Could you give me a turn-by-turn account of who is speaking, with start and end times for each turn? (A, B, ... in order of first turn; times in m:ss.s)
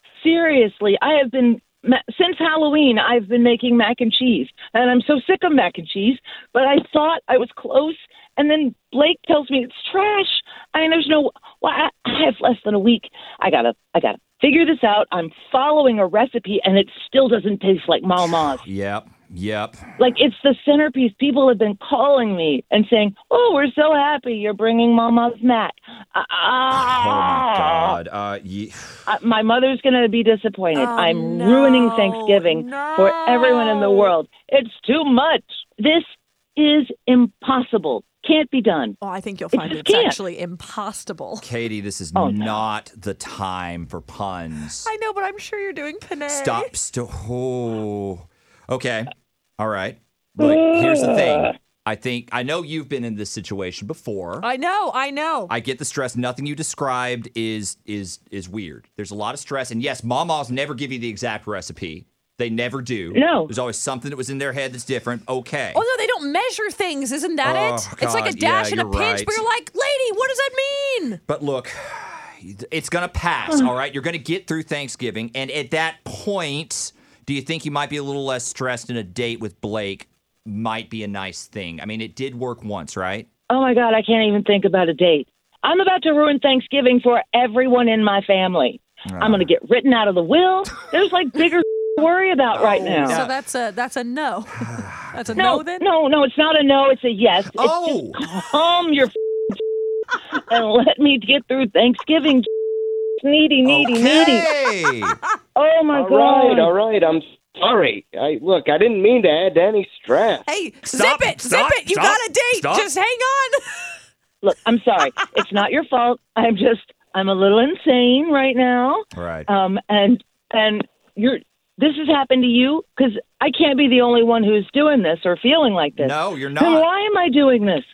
0:00.2-0:18.6 A
0:18.6-0:19.9 B
0:20.0-0:28.0 A
0:26.7-0:29.1 B
0:29.1-0:39.0 A
0:30.7-0:34.1 C
0:39.0-0:41.5 C
0:39.5-0:40.2 A
0:41.4-0:44.9 B
0:42.2-0:42.7 A
0:44.8-0:46.7 C
0:46.3-0:54.5 B
0:50.4-0:51.5 A
0:54.4-0:55.5 C
0:55.5-1:05.8 B
1:03.1-1:03.5 A
1:05.7-1:11.2 C
1:07.4-1:09.4 B
1:11.3-1:23.3 B
1:23.5-1:33.2 A
1:29.1-1:29.5 B
1:32.6-1:33.3 B
1:32.9-1:35.8 C
1:34.7-1:35.2 B
1:35.4-1:39.6 A
1:37.5-1:38.2 B
1:40.4-1:42.5 A
1:43.2-1:44.5 A
1:43.6-1:45.2 B
1:45.6-1:46.7 A
1:45.9-1:50.4 D
1:50.4-1:53.9 C
1:50.8-1:52.9 B
1:54.4-2:07.9 A
1:59.2-1:59.5 B
2:06.0-2:06.8 B